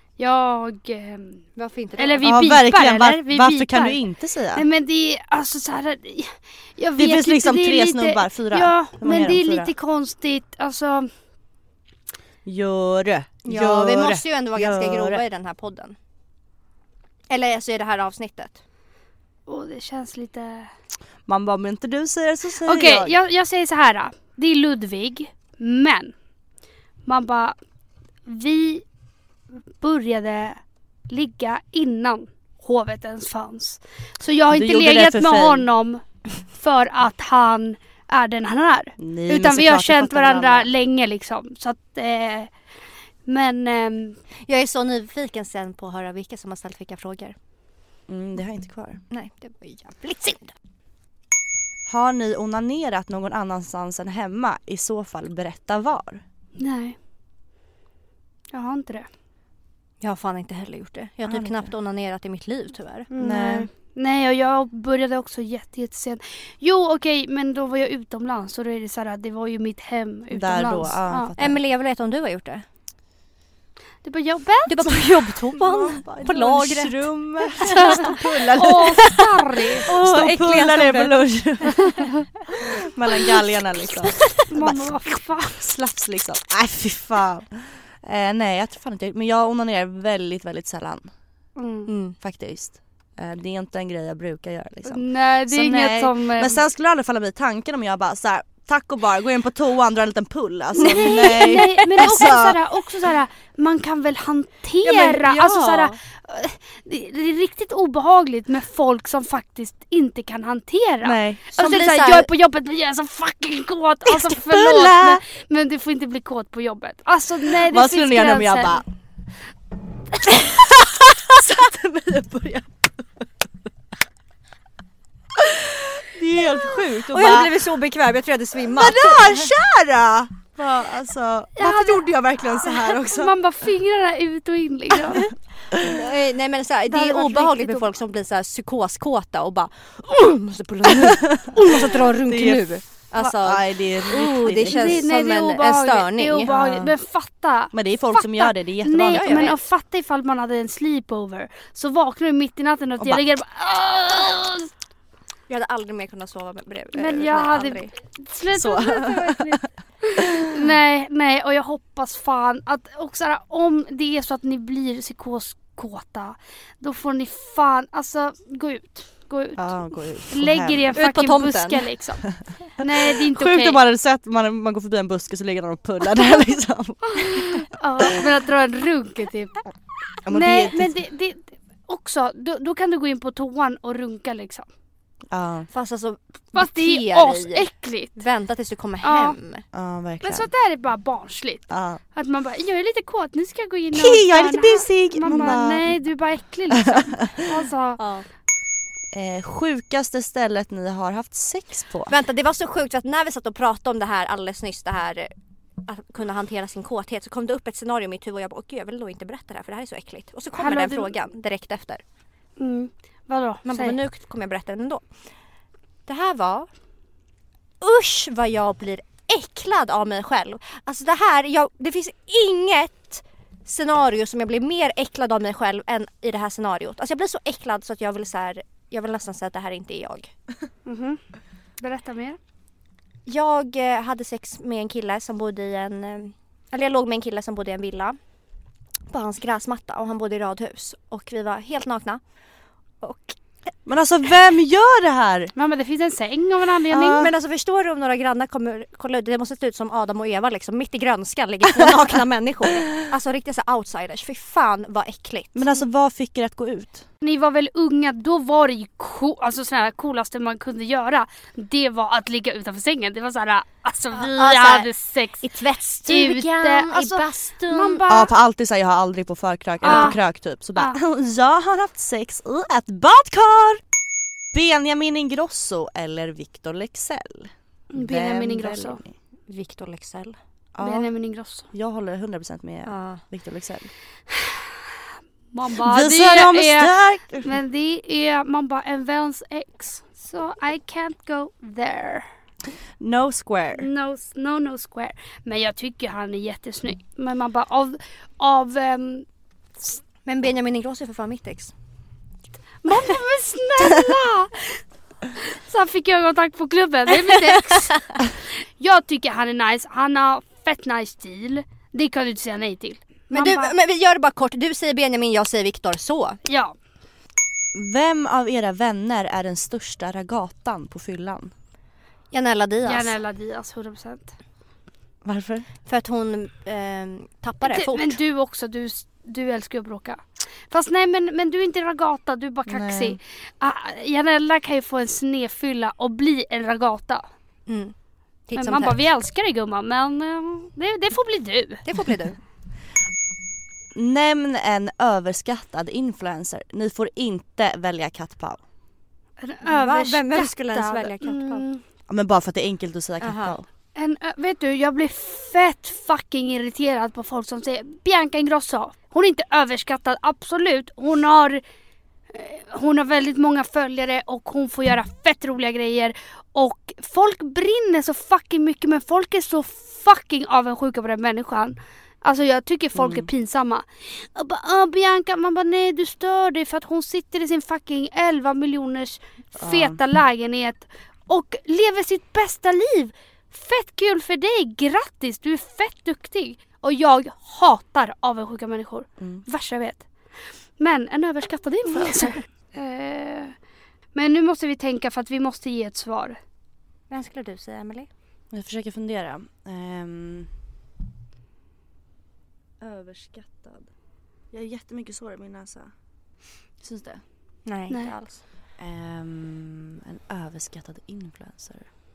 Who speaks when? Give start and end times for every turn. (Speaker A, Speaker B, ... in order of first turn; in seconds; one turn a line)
Speaker A: 0.2-1.4
Speaker B: 1.6-2.3
Speaker A: 2.0-4.0
Speaker C: 2.2-4.7
Speaker A: 4.5-11.1
Speaker C: 7.0-9.7
Speaker C: 12.4-15.2
Speaker B: 13.4-16.0
Speaker B: 17.3-18.6
Speaker A: 19.5-20.7
Speaker C: 21.3-23.2
Speaker A: 22.6-26.1
Speaker A: 27.1-27.6
Speaker A: 28.3-28.9
Speaker A: 29.8-42.5
Speaker C: 34.5-35.7
Speaker C: 39.0-40.7
Speaker A: 43.2-44.2
Speaker B: 44.4-47.4
Speaker C: 48.1-49.0
Speaker B: 49.1-50.5
Speaker C: 51.9-56.2
Speaker A: 56.6-57.0
Speaker A: 58.5-59.1
Speaker B: 60.0-63.1
Speaker C: 61.3-61.7
Speaker A: 63.1-71.3
Speaker C: 63.2-63.7
Speaker C: 70.3-71.6
Speaker B: 71.4-72.7
Speaker A: 74.0-75.0
Speaker B: 74.7-81.7
Speaker C: 75.6-79.2
Speaker A: 77.6-79.9
Speaker C: 79.8-91.1
Speaker B: 84.0-84.4
Speaker A: 84.5-85.6
Speaker A: 91.6-91.9
Speaker B: 91.9-92.2
Speaker C: 92.2-102.6
Speaker A: 94.9-96.6
Speaker B: 100.8-102.3
Speaker A: 100.8-118.8
Speaker B: 104.8-106.0
Speaker C: 111.0-111.5
Speaker B: 111.5-112.3
Speaker C: 114.1-115.2
Speaker C: 117.6-118.8
Speaker C: 120.2-123.2
Speaker C: 125.4-127.6
Speaker B: 127.1-129.5
Speaker C: 128.7-133.4
Speaker A: 131.6-135.3
Speaker B: 135.8-146.5
Speaker A: 136.9-137.8
Speaker C: 140.9-145.0
Speaker A: 144.6-154.7
Speaker C: 146.5-146.9
Speaker C: 147.7-149.5
Speaker B: 149.1-149.6
Speaker B: 155.5-157.9
Speaker A: 156.9-169.7
Speaker C: 158.5-159.6
Speaker C: 169.6-170.9
Speaker A: 170.3-172.2
Speaker B: 170.9-171.9
Speaker A: 172.8-173.8
Speaker C: 172.8-178.3
Speaker A: 177.2-179.6
Speaker C: 180.2-180.9
Speaker A: 180.3-184.7
Speaker C: 185.3-185.7
Speaker B: 185.7-189.7
Speaker A: 186.5-188.2
Speaker A: 189.0-189.4
Speaker C: 189.7-190.5
Speaker A: 190.2-198.0
Speaker C: 191.7-192.0
Speaker C: 193.9-195.9
Speaker C: 196.9-197.3
Speaker B: 198.0-198.3
Speaker C: 199.1-202.1
Speaker B: 202.1-212.0
Speaker A: 210.6-211.1
Speaker A: 212.6-214.0
Speaker B: 213.7-215.1
Speaker B: 216.1-216.7
Speaker B: 217.8-230.3
Speaker A: 230.9-231.2
Speaker A: 231.8-232.4
Speaker B: 233.3-238.2
Speaker B: 239.1-242.2
Speaker B: 243.0-243.4
Speaker C: 243.9-245.5
Speaker A: 245.6-247.3
Speaker C: 246.9-247.3
Speaker B: 247.1-255.7
Speaker C: 255.6-257.1
Speaker A: 257.2-265.5
Speaker B: 264.2-264.9
Speaker B: 265.4-268.0
Speaker A: 266.1-268.3
Speaker C: 268.1-273.8
Speaker A: 269.8-270.2
Speaker B: 269.8-270.2
Speaker C: 274.5-279.1
Speaker A: 277.9-279.0
Speaker B: 279.5-280.4
Speaker C: 280.8-281.1
Speaker A: 280.8-281.7
Speaker C: 281.7-283.9
Speaker B: 282.9-283.2
Speaker A: 284.3-284.6
Speaker A: 285.5-292.3
Speaker C: 285.8-287.6
Speaker C: 293.0-293.9
Speaker A: 293.8-299.3
Speaker B: 300.3-301.7
Speaker A: 302.8-304.8
Speaker A: 305.3-313.7
Speaker B: 307.2-308.0
Speaker B: 313.3-316.4
Speaker A: 316.5-316.7
Speaker C: 317.7-321.5
Speaker B: 322.3-323.1
Speaker A: 322.9-324.4
Speaker C: 325.2-325.7
Speaker B: 325.9-328.2
Speaker A: 327.6-337.3
Speaker C: 332.7-333.2
Speaker B: 337.7-337.9
Speaker B: 338.5-339.1
Speaker A: 338.6-341.9
Speaker B: 341.9-342.4
Speaker C: 343.9-348.6
Speaker A: 349.4-351.8
Speaker B: 349.6-351.6
Speaker C: 352.1-353.7
Speaker B: 353.2-353.5
Speaker A: 354.0-361.6
Speaker A: 362.3-390.1
Speaker C: 373.0-373.3
Speaker C: 379.6-380.0
Speaker A: 390.8-393.6
Speaker A: 394.1-396.4
Speaker B: 397.1-398.1
Speaker C: 398.5-400.5
Speaker C: 402.8-403.9
Speaker C: 404.5-405.9
Speaker C: 406.8-407.2
Speaker B: 407.7-408.4
Speaker C: 408.8-411.9